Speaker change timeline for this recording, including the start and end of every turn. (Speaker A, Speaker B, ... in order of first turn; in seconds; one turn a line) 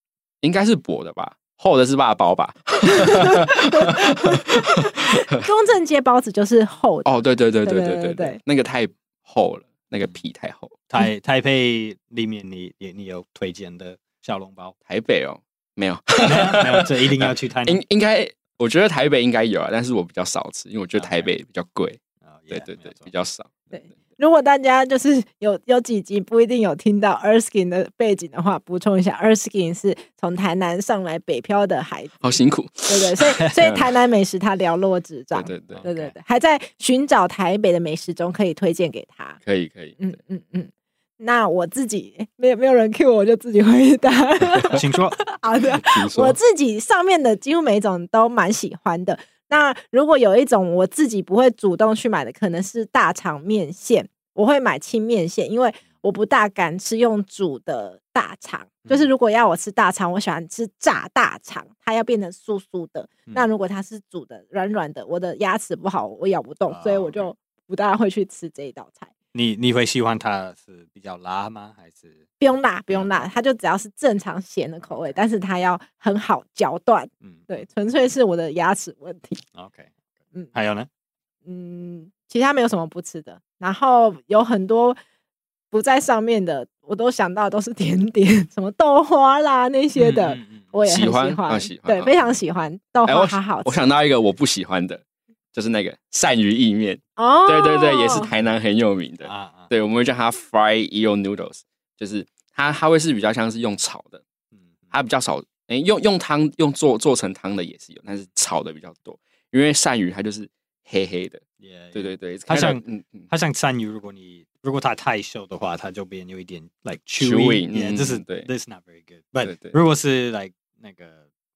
Speaker A: 0.4-4.8
Speaker B: 2.9-8.4
Speaker A: 7.0-10.8
Speaker C: 10.9-14.7
Speaker A: 14.9-23.7
Speaker C: 16.2-17.8
Speaker C: 20.9-21.3
Speaker C: 22.2-23.1
Speaker B: 23.7-39.4
Speaker A: 32.2-34.0
Speaker A: 35.3-35.8
Speaker C: 35.7-36.1
Speaker A: 39.4-40.0
Speaker B: 40.0-69.1
Speaker A: 44.5-44.8
Speaker C: 44.7-45.2
Speaker A: 45.8-46.4
Speaker C: 66.7-67.3
Speaker C: 69.3-72.2
Speaker B: 72.4-79.4
Speaker C: 72.9-73.2
Speaker C: 74.8-75.2
Speaker C: 77.2-77.5
Speaker C: 79.5-79.9
Speaker C: 80.5-80.9
Speaker B: 81.4-85.0
Speaker B: 85.7-93.8
Speaker C: 90.0-90.7
Speaker A: 90.9-92.4
Speaker A: 93.0-95.0
Speaker A: 95.5-104.2
Speaker B: 97.2-98.3
Speaker C: 99.2-99.7
Speaker A: 104.9-113.3
Speaker C: 111.6-121.2
Speaker A: 117.2-118.5
Speaker A: 119.4-119.8